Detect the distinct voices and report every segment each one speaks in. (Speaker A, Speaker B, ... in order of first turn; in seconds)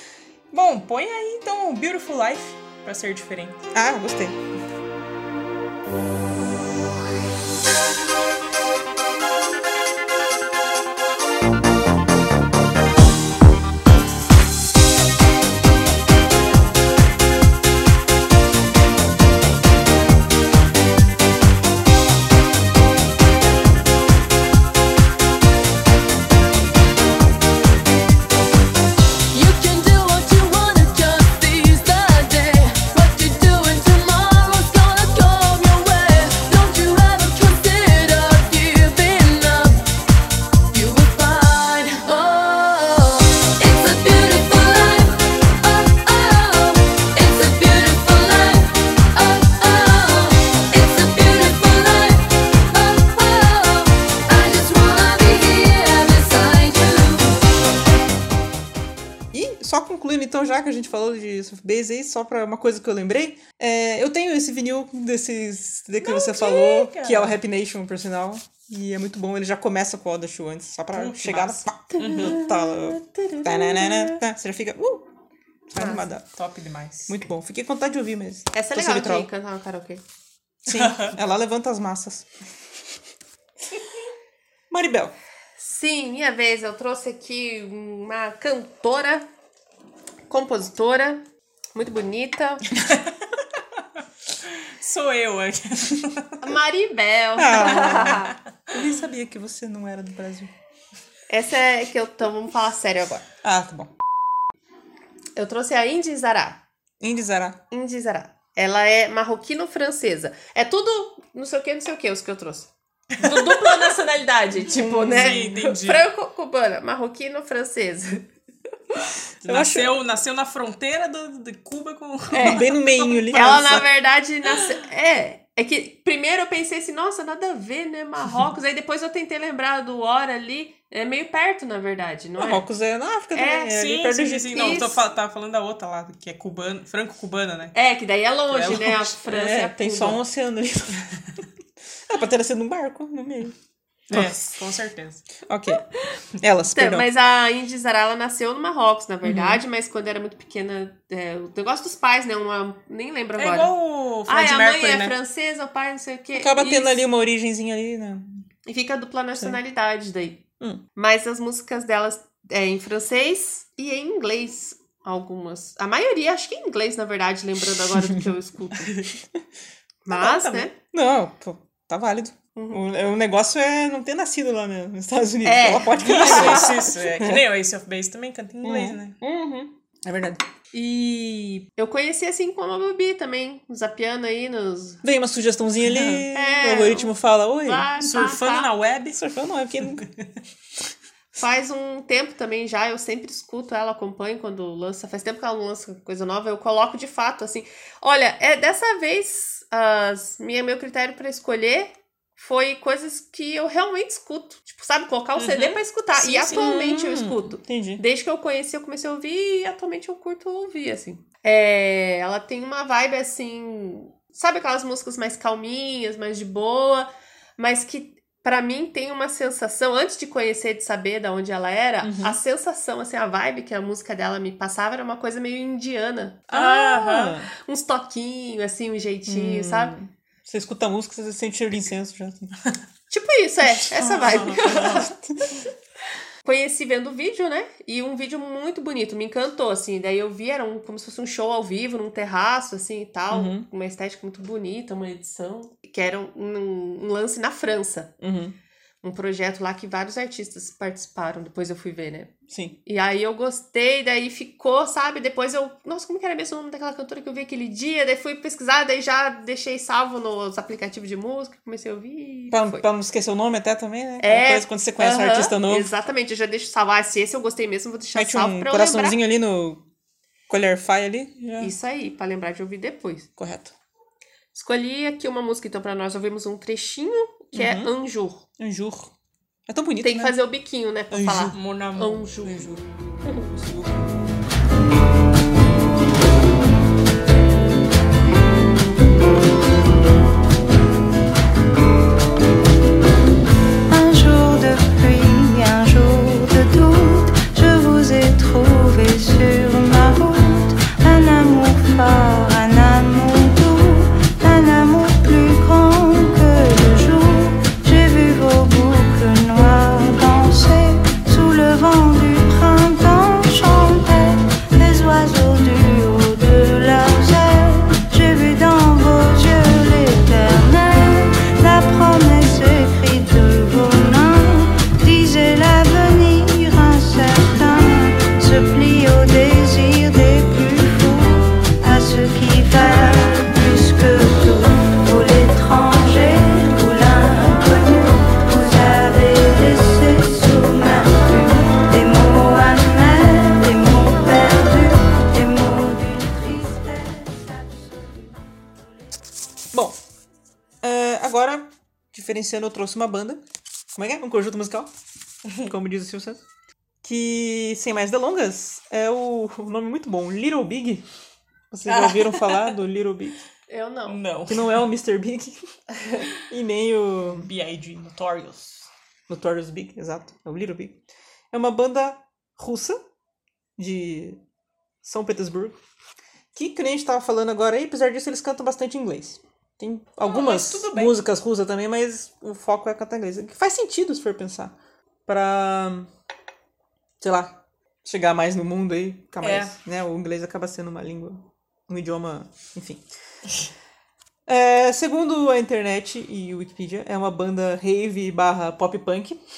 Speaker A: 0.5-3.6, 66.0-67.4, 70.9-72.4, 76.3-77.1, 80.7-81.1, 92.8-93.1, 94.4-96.4, 113.2-113.9, 115.1-116.0, 119.4-123.7, 133.7-137.7, 138.5-139.1, 144.1-145.3, 153.4-155.2, 170.1-170.7, 176.0-179.2, 188.0-189.2, 205.3-205.8, 226.5-227.3, 234.2-235.0, 281.5-282.7, 361.9-362.7, 364.1-364.8, 367.4-368.9, 380.2-381.2, 389.4-389.7
Speaker B: 3.7-4.4, 59.3-75.1, 75.7-76.3, 77.1-79.3, 80.7-82.3, 84.7-85.1, 97.4-100.5, 103.4-103.9, 107.0-107.6, 114.7-115.5, 119.4-120.0, 122.3-123.9, 132.4-134.8, 139.2-141.1, 142.1-143.5, 144.1-144.3, 145.4-145.8, 146.4-147.1, 149.2-149.6, 156.3-158.4, 170.9-177.4, 178.6-179.0, 180.0-180.4, 185.0-187.9, 189.1-190.0, 206.3-208.0, 222.0-222.4, 226.5-227.5, 229.3-232.6, 234.0-235.5, 243.3-243.7, 248.2-248.6, 252.5-252.8, 262.5-265.9, 268.1-269.8, 270.5-271.7, 273.4-273.7, 277.5-277.9, 278.6-279.1, 279.7-280.4, 281.1-281.6, 283.5-284.1, 349.7-350.0, 350.8-353.4, 353.9-354.9, 355.6-356.4, 357.0-361.0, 361.7-363.4, 364.5-365.6, 366.4-367.5, 369.3-371.0, 371.5-373.0, 373.8-374.4, 375.0-375.8, 376.5-384.7, 385.3-386.1, 387.2-393.0, 394.5-399.4
Speaker C: 29.3-39.8, 40.7-57.4
Speaker D: 71.9-74.2, 75.8-76.0, 78.5-80.0, 85.6-89.3, 90.3-91.2, 91.7-92.7, 96.4-98.3, 101.3-103.2, 105.3-106.6, 107.7-118.2, 123.3-132.6, 133.3-133.7, 134.5-135.0, 137.7-140.2, 146.7-153.7, 154.3-157.0, 158.7-160.4, 160.9-168.9, 170.0-170.7, 172.6-172.8, 175.4-176.8, 179.2-179.7, 180.7-185.0, 186.3-187.1, 187.6-188.7, 191.3-229.9, 233.1-235.1, 236.4-248.1, 249.0-252.3, 252.8-262.8, 264.2-269.2, 271.6-273.3, 274.5-278.4, 280.0-282.6, 363.7-364.2
Speaker E: 293.9-348.1